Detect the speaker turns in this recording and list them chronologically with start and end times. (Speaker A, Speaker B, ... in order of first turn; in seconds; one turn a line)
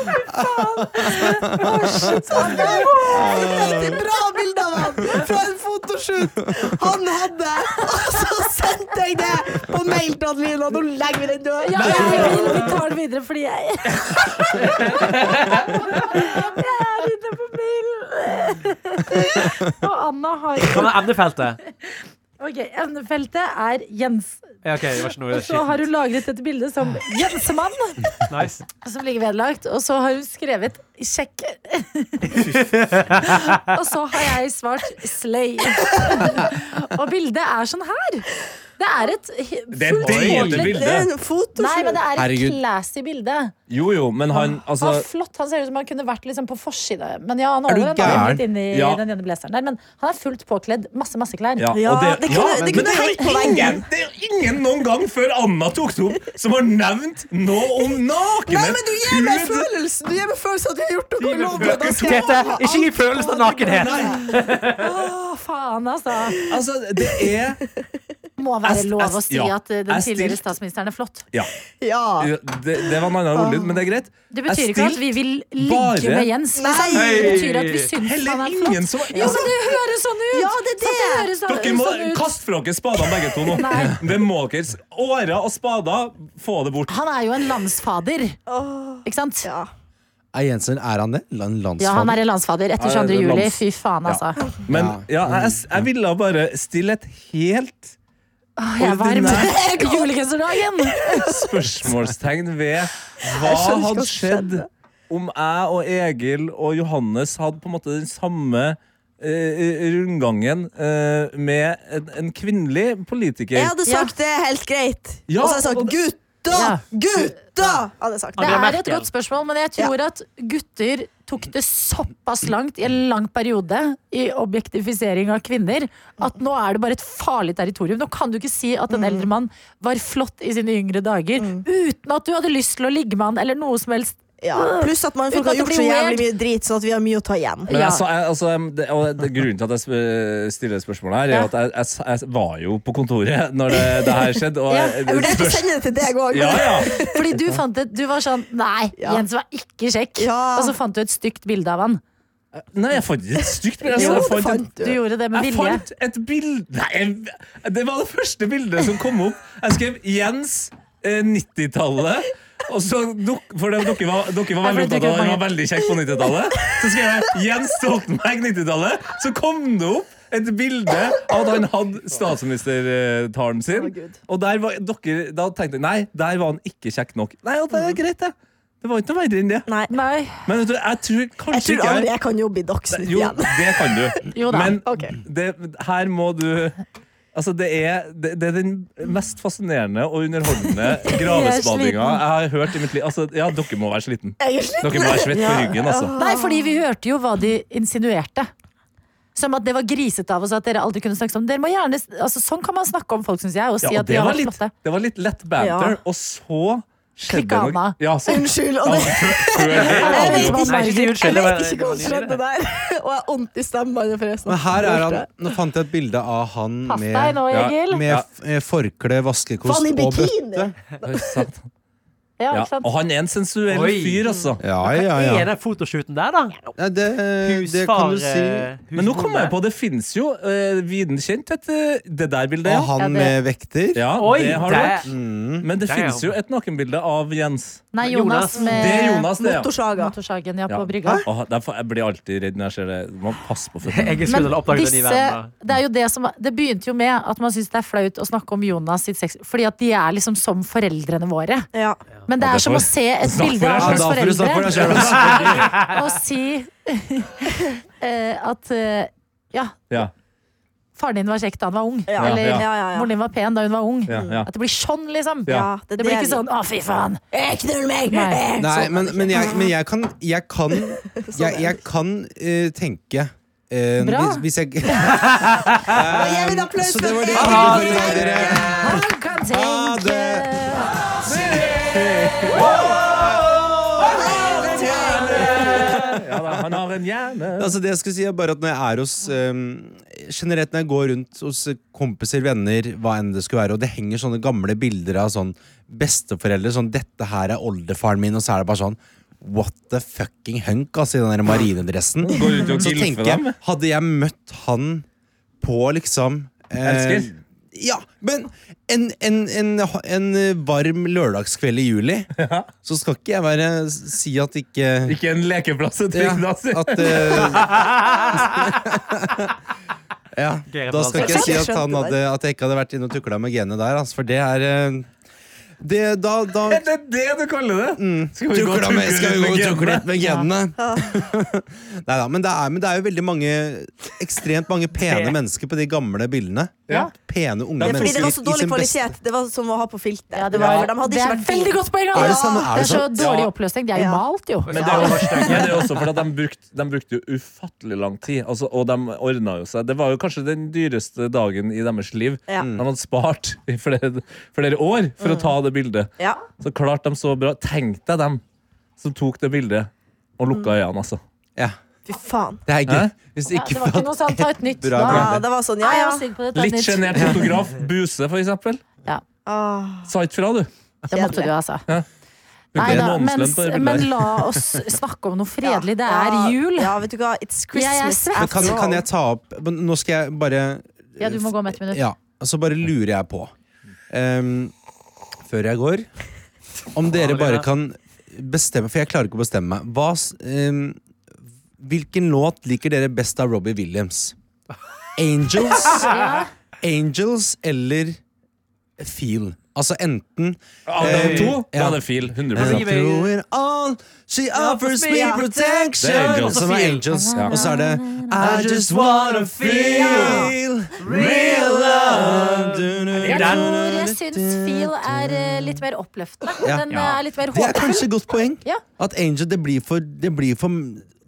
Speaker A: 0.3-1.9
Speaker B: 0.4-0.8
Speaker C: 0.6-4.0
Speaker B: 1.9-12.7
Speaker A: 3.1-4.0
Speaker C: 11.6-20.9
Speaker D: 11.8-12.2
Speaker E: 14.9-15.7
Speaker E: 20.6-21.6
Speaker C: 21.9-24.5
Speaker E: 24.6-25.8
Speaker C: 25.3-28.1
Speaker E: 28.3-28.6
Speaker C: 28.8-32.4
Speaker E: 32.6-33.2
Speaker C: 33.2-40.8
Speaker B: 36.0-36.2
Speaker D: 39.7-41.1
Speaker E: 40.0-40.7
Speaker B: 40.4-42.0
Speaker C: 41.6-43.5
Speaker A: 42.2-42.6
Speaker D: 43.7-45.0
Speaker C: 44.4-51.7
Speaker A: 47.7-48.4
Speaker D: 48.0-49.0
Speaker D: 51.6-59.7
Speaker B: 51.7-53.9
Speaker B: 58.5-64.2
Speaker E: 61.2-64.8
Speaker D: 61.6-62.3
Speaker D: 63.6-64.2
Speaker C: 64.7-66.4
Speaker D: 66.5-67.6
Speaker C: 68.4-71.2
Speaker D: 68.6-70.4
Speaker B: 71.8-73.8
Speaker D: 72.2-76.3
Speaker C: 74.3-82.3
Speaker B: 76.5-77.4
Speaker E: 76.9-77.9
Speaker D: 78.0-79.5
Speaker B: 79.1-79.8
Speaker B: 80.3-81.3
Speaker D: 81.5-87.0
Speaker C: 83.5-84.0
Speaker C: 86.9-88.4
Speaker B: 88.5-89.7
Speaker C: 89.0-89.5
Speaker A: 90.3-92.2
Speaker C: 91.8-94.4
Speaker D: 92.8-97.9
Speaker A: 94.7-95.8
Speaker C: 98.6-101.3
Speaker D: 98.8-99.6
Speaker B: 99.6-100.0
Speaker D: 101.2-113.7
Speaker B: 103.2-104.7
Speaker B: 113.5-118.7
Speaker C: 113.8-114.1
Speaker D: 115.3-116.0
Speaker C: 116.5-116.8
Speaker E: 118.4-119.1
Speaker C: 118.4-136.2
Speaker B: 128.9-129.3
Speaker B: 131.4-131.6
Speaker B: 134.4-137.9
Speaker D: 137.7-145.8
Speaker C: 144.7-145.0
Speaker B: 145.1-147.2
Speaker D: 146.3-146.9
Speaker C: 147.0-152.0
Speaker B: 149.0-149.2
Speaker B: 150.2-150.8
Speaker D: 152.6-154.6
Speaker B: 153.9-155.0
Speaker C: 153.9-155.8
Speaker D: 155.3-179.7
Speaker C: 164.6-165.4
Speaker B: 173.7-174.2
Speaker C: 179.9-180.4
Speaker D: 180.4-182.1
Speaker B: 181.5-184.1
Speaker D: 182.9-186.8
Speaker C: 184.3-184.8
Speaker B: 184.8-185.2
Speaker D: 187.3-196.1
Speaker C: 191.1-192.2
Speaker B: 194.4-196.8
Speaker C: 196.2-198.5
Speaker C: 199.3-204.7
Speaker D: 203.8-210.6
Speaker B: 205.6-206.0
Speaker C: 207.3-207.9
Speaker B: 208.2-215.3
Speaker E: 209.8-212.4
Speaker C: 209.9-211.4
Speaker A: 214.5-220.7
Speaker C: 216.9-218.0
Speaker D: 217.5-218.2
Speaker B: 219.6-221.4
Speaker D: 221.1-221.6
Speaker C: 222.4-222.9
Speaker D: 222.5-224.6
Speaker E: 223.7-226.7
Speaker B: 224.2-224.5
Speaker A: 224.6-225.5
Speaker A: 226.8-228.7
Speaker E: 227.4-229.6
Speaker D: 228.9-232.9
Speaker A: 232.6-234.1
Speaker C: 233.0-233.3
Speaker D: 233.9-237.9
Speaker E: 234.1-235.1
Speaker A: 235.0-235.7
Speaker E: 235.8-236.3
Speaker C: 237.9-239.3
Speaker E: 238.0-238.7
Speaker B: 238.5-240.1
Speaker D: 238.7-239.7
Speaker C: 239.9-241.2
Speaker D: 240.7-244.2
Speaker E: 243.8-245.5
Speaker C: 244.2-251.7
Speaker B: 251.7-252.0
Speaker C: 252.3-255.0
Speaker D: 252.4-255.8
Speaker A: 253.8-255.7
Speaker C: 255.6-259.7
Speaker C: 260.9-267.2
Speaker B: 262.1-263.1
Speaker D: 262.2-262.6
Speaker D: 264.1-264.5
Speaker B: 264.1-264.4
Speaker B: 265.5-266.4
Speaker B: 267.3-269.7
Speaker C: 268.1-268.4
Speaker A: 268.6-280.7
Speaker B: 270.9-271.8
Speaker C: 274.0-274.4
Speaker B: 276.0-278.4
Speaker E: 277.3-278.5
Speaker D: 278.1-278.6
Speaker C: 278.8-280.9
Speaker D: 281.2-287.7
Speaker A: 282.5-283.4
Speaker B: 284.0-285.9
Speaker A: 285.1-286.1
Speaker A: 287.6-305.1
Speaker D: 302.3-303.6
Speaker A: 305.6-312.3
Speaker D: 306.8-307.3
Speaker D: 312.4-312.7
Speaker A: 312.8-315.2
Speaker D: 315.1-317.7
Speaker A: 316.1-319.5
Speaker E: 317.7-318.0
Speaker A: 320.3-325.1
Speaker E: 320.7-321.6
Speaker B: 321.1-322.2
Speaker A: 325.8-326.8
Speaker D: 326.7-330.0
Speaker A: 327.9-339.1
Speaker C: 330.2-330.5
Speaker B: 330.8-331.2
Speaker E: 335.0-335.3
Speaker D: 337.8-338.3
Speaker B: 337.8-342.9
Speaker C: 340.3-344.7
Speaker D: 340.5-340.9
Speaker A: 342.1-343.1
Speaker D: 343.2-343.5
Speaker B: 343.9-344.2
Speaker E: 344.7-345.8
Speaker D: 344.7-358.4
Speaker B: 344.7-345.7
Speaker A: 352.6-352.8
Speaker B: 355.2-355.5
Speaker D: 359.0-361.2
Speaker B: 360.5-360.7
Speaker B: 362.1-362.6
Speaker A: 362.6-365.4
Speaker D: 362.9-363.1
Speaker C: 363.5-365.3
Speaker B: 365.0-366.2
Speaker C: 365.8-367.5
Speaker D: 366.5-368.8
Speaker A: 367.1-367.5
Speaker B: 369.4-370.1
Speaker D: 370.1-370.7
Speaker C: 371.1-371.8
Speaker B: 371.1-371.5
Speaker D: 372.7-374.4
Speaker C: 372.8-376.9
Speaker A: 372.8-373.1
Speaker B: 375.6-379.0
Speaker C: 377.7-378.8
Speaker A: 378.3-383.5
Speaker C: 381.2-382.0
Speaker A: 384.1-384.7
Speaker A: 385.4-386.1
Speaker A: 386.9-391.0
Speaker E: 387.1-387.7
Speaker A: 391.8-394.4
Speaker A: 395.2-396.2
Speaker E: 395.9-396.2
Speaker C: 395.9-396.5
Speaker A: 396.8-398.2
Speaker A: 399.0-415.8
Speaker D: 400.9-402.9
Speaker E: 401.0-401.6
Speaker E: 402.5-403.3
Speaker E: 404.5-405.4
Speaker B: 405.1-405.4
Speaker D: 406.0-407.6
Speaker E: 406.1-407.0
Speaker C: 407.1-408.5
Speaker D: 408.4-408.9
Speaker E: 408.4-412.6
Speaker C: 410.0-410.4
Speaker D: 411.2-412.4
Speaker E: 413.1-413.7
Speaker C: 413.3-418.1
Speaker A: 416.6-421.1
Speaker E: 416.9-417.2